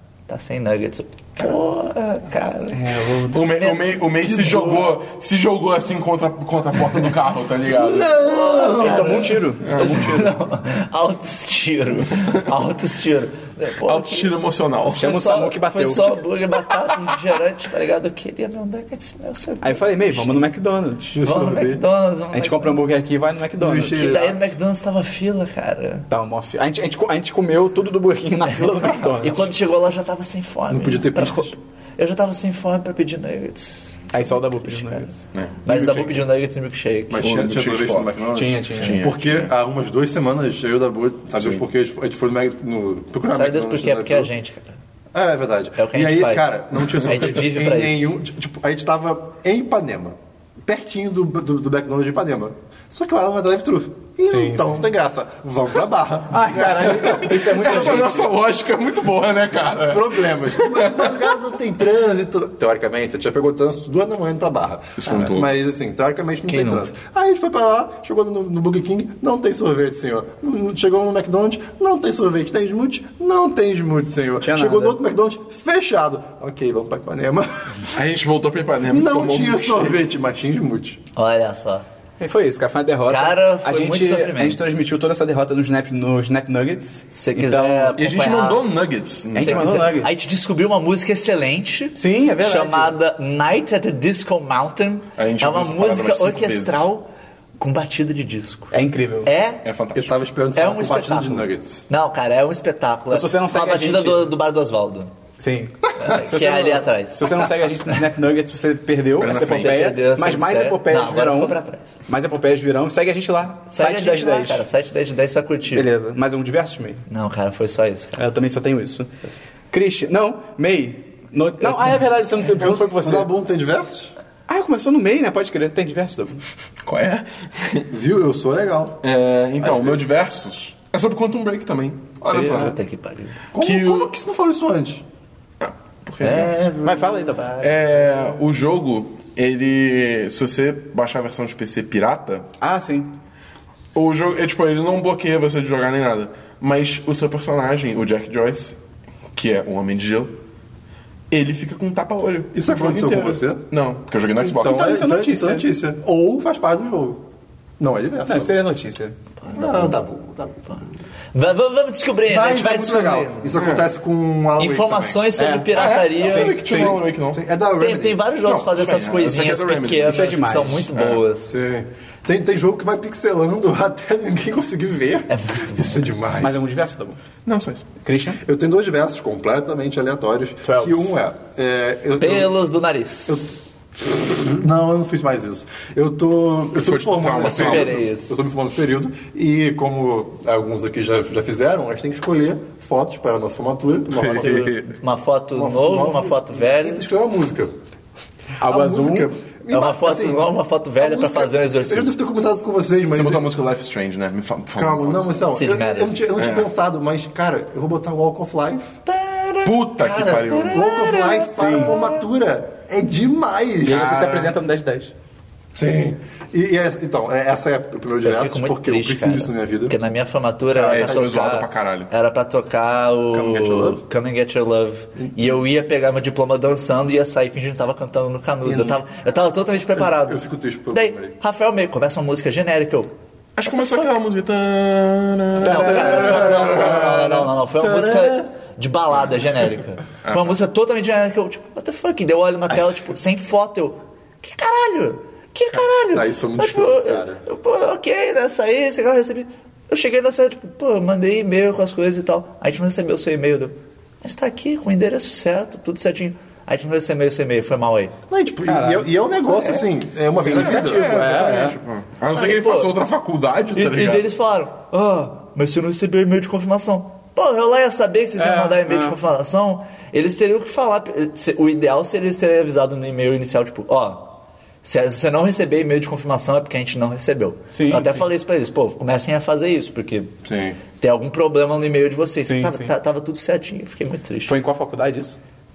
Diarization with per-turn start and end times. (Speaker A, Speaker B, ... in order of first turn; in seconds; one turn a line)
Speaker A: 0.3-4.9
Speaker B: 2.7-3.4
Speaker C: 3.3-8.2
Speaker A: 7.8-14.3
Speaker D: 7.8-9.2
Speaker B: 8.7-10.4
Speaker C: 9.7-10.2
Speaker C: 13.8-15.2
Speaker B: 14.9-16.2
Speaker A: 15.0-20.4
Speaker B: 19.6-21.2
Speaker D: 21.1-21.8
Speaker A: 21.2-22.8
Speaker B: 22.3-24.3
Speaker D: 23.6-24.4
Speaker A: 23.9-26.1
Speaker B: 26.1-29.5
Speaker A: 28.5-34.1
Speaker D: 30.7-31.6
Speaker B: 34.1-35.2
Speaker A: 34.6-35.1
Speaker C: 35.3-35.6
Speaker A: 35.6-37.4
Speaker D: 37.1-44.3
Speaker C: 37.2-39.5
Speaker B: 38.3-39.0
Speaker A: 43.3-44.8
Speaker D: 45.1-58.0
Speaker A: 45.8-48.1
Speaker B: 54.3-54.8
Speaker B: 56.3-58.4
Speaker C: 57.0-61.3
Speaker D: 59.9-77.9
Speaker C: 65.0-65.5
Speaker A: 66.5-66.9
Speaker B: 74.4-75.0
Speaker C: 77.9-80.0
Speaker D: 78.9-81.0
Speaker A: 81.2-81.8
Speaker B: 82.2-88.0
Speaker A: 83.1-84.7
Speaker A: 87.1-88.7
Speaker C: 88.0-89.9
Speaker B: 89.3-90.1
Speaker A: 89.4-97.1
Speaker B: 92.0-93.0
Speaker C: 95.2-96.8
Speaker A: 97.6-99.6
Speaker B: 98.7-99.3
Speaker C: 99.7-100.1
Speaker D: 99.9-101.8
Speaker A: 100.5-105.1
Speaker B: 103.1-104.3
Speaker B: 105.4-114.6
Speaker A: 106.0-107.6
Speaker C: 109.2-110.0
Speaker A: 109.3-112.0
Speaker A: 113.7-115.9
Speaker B: 115.7-117.0
Speaker A: 117.1-118.2
Speaker B: 118.2-123.3
Speaker D: 122.5-124.1
Speaker B: 124.5-126.4
Speaker C: 126.8-127.9
Speaker D: 127.9-129.0
Speaker C: 129.0-132.8
Speaker D: 129.6-130.0
Speaker A: 132.3-133.4
Speaker D: 133.5-135.0
Speaker C: 133.6-134.1
Speaker C: 135.6-136.6
Speaker A: 136.2-137.8
Speaker B: 136.8-137.5
Speaker C: 137.6-142.5
Speaker B: 142.6-143.1
Speaker C: 143.9-148.8
Speaker C: 149.3-150.3
Speaker C: 151.3-154.9
Speaker D: 152.5-153.6
Speaker D: 154.4-157.2
Speaker B: 154.6-155.7
Speaker D: 157.8-158.6
Speaker B: 158.3-159.2
Speaker A: 159.4-159.9
Speaker D: 159.5-160.8
Speaker A: 161.3-163.6
Speaker D: 162.3-165.2
Speaker C: 163.6-163.9
Speaker A: 164.6-166.6
Speaker B: 165.4-167.0
Speaker C: 165.7-167.4
Speaker D: 166.7-168.2
Speaker A: 167.8-171.5
Speaker C: 168.4-171.2
Speaker B: 170.0-170.9
Speaker D: 171.5-176.6
Speaker A: 175.3-176.1
Speaker B: 176.4-177.2
Speaker C: 177.5-177.9
Speaker B: 178.0-178.4
Speaker D: 178.4-182.5
Speaker B: 180.6-181.2
Speaker A: 182.2-183.6
Speaker D: 183.3-194.8
Speaker C: 186.8-188.0
Speaker A: 187.4-188.4
Speaker C: 194.2-194.7
Speaker A: 194.3-197.1
Speaker D: 195.6-197.7
Speaker B: 198.6-199.3
Speaker D: 198.6-200.4
Speaker A: 199.7-202.1
Speaker D: 201.0-203.5
Speaker C: 203.1-205.5
Speaker D: 204.8-208.9
Speaker A: 205.5-206.3
Speaker C: 206.4-206.7
Speaker A: 209.1-212.2
Speaker C: 209.7-210.9
Speaker D: 210.7-214.2
Speaker B: 211.6-211.9
Speaker B: 213.8-215.1
Speaker C: 213.8-214.6
Speaker D: 215.7-220.0
Speaker A: 218.2-233.1
Speaker D: 220.7-221.3
Speaker C: 220.8-222.1
Speaker D: 223.3-224.0
Speaker D: 228.6-229.0
Speaker D: 230.0-231.3
Speaker C: 233.6-237.1
Speaker A: 235.6-258.1
Speaker D: 235.6-238.4
Speaker C: 240.3-240.5
Speaker D: 246.1-247.4
Speaker D: 258.3-261.1
Speaker B: 258.6-259.1
Speaker B: 260.4-261.8
Speaker C: 260.5-264.3
Speaker A: 262.3-263.0
Speaker A: 263.7-280.3
Speaker B: 268.4-269.2
Speaker B: 277.7-278.2
Speaker D: 280.4-280.8
Speaker A: 281.0-284.5
Speaker B: 282.5-282.9
Speaker B: 284.5-285.4